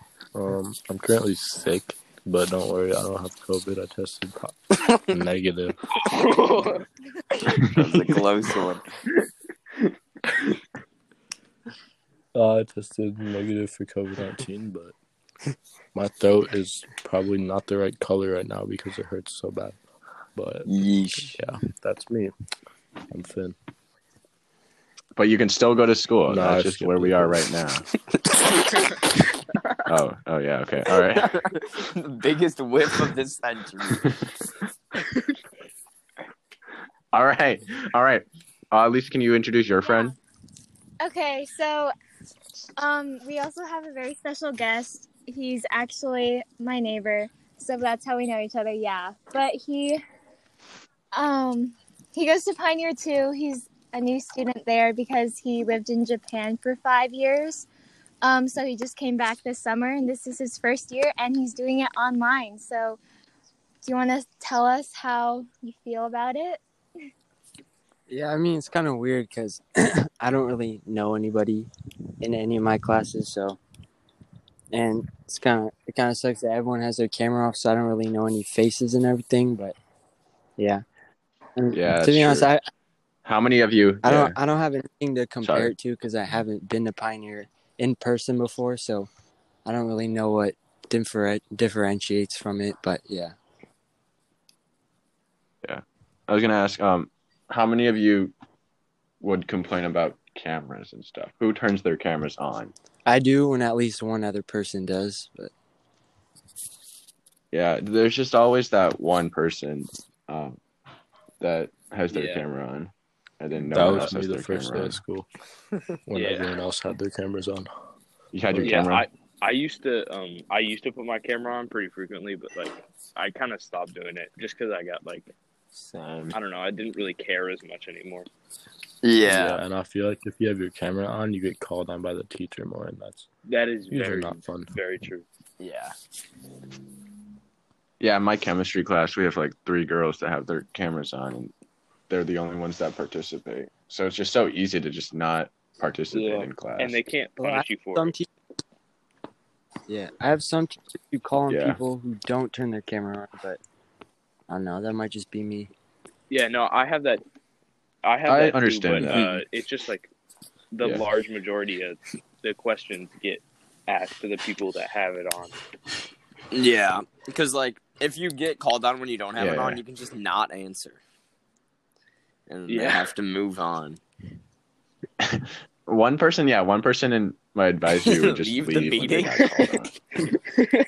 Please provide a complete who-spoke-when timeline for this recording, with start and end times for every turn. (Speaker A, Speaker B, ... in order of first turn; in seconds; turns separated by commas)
Speaker A: 0.3-5.8, Speaker B: 6.0-6.8, Speaker C: 7.7-8.8, Speaker A: 12.3-15.0, Speaker A: 15.9-19.8, Speaker A: 20.3-22.3, Speaker C: 20.6-21.4, Speaker A: 23.1-23.6, Speaker D: 25.1-27.8, Speaker A: 26.3-27.4, Speaker C: 28.3-28.7, Speaker D: 29.9-31.3, Speaker C: 30.9-34.0, Speaker D: 37.1-40.1, Speaker E: 39.8-40.2, Speaker E: 41.0-41.9, Speaker E: 42.8-50.0, Speaker E: 51.1-57.6, Speaker E: 58.2-63.0, Speaker E: 63.8-66.6, Speaker F: 68.1-71.7, Speaker F: 72.2-73.6, Speaker F: 74.7-79.8, Speaker F: 80.6-80.8, Speaker F: 81.5-82.7, Speaker D: 81.7-82.5, Speaker D: 83.2-84.4, Speaker F: 84.0-89.1, Speaker D: 85.4-85.7, Speaker F: 89.7-93.3, Speaker D: 95.6-98.3, Speaker D: 99.2-102.7, Speaker F: 103.0-105.5, Speaker D: 107.5-110.6, Speaker D: 111.4-115.0, Speaker B: 112.1-112.4, Speaker A: 113.5-115.3, Speaker A: 116.0-117.7, Speaker B: 116.1-116.6, Speaker D: 118.3-119.0, Speaker A: 118.5-118.8, Speaker B: 118.6-125.3, Speaker C: 125.8-126.3, Speaker B: 126.3-128.3, Speaker C: 129.0-129.6, Speaker A: 129.2-133.3, Speaker B: 133.4-135.2, Speaker A: 133.9-134.7, Speaker C: 135.6-135.9, Speaker D: 138.0-141.5, Speaker D: 142.1-147.0, Speaker B: 146.1-148.1, Speaker F: 147.4-148.2, Speaker F: 149.9-153.6, Speaker D: 151.5-151.8, Speaker F: 154.5-155.7, Speaker B: 156.3-157.2, Speaker B: 158.0-160.1, Speaker D: 158.2-159.2, Speaker C: 159.0-159.4, Speaker B: 160.7-165.6, Speaker C: 166.5-171.0, Speaker D: 169.4-169.8, Speaker C: 172.5-174.0, Speaker B: 172.7-173.1, Speaker D: 175.2-179.9, Speaker C: 178.0-179.8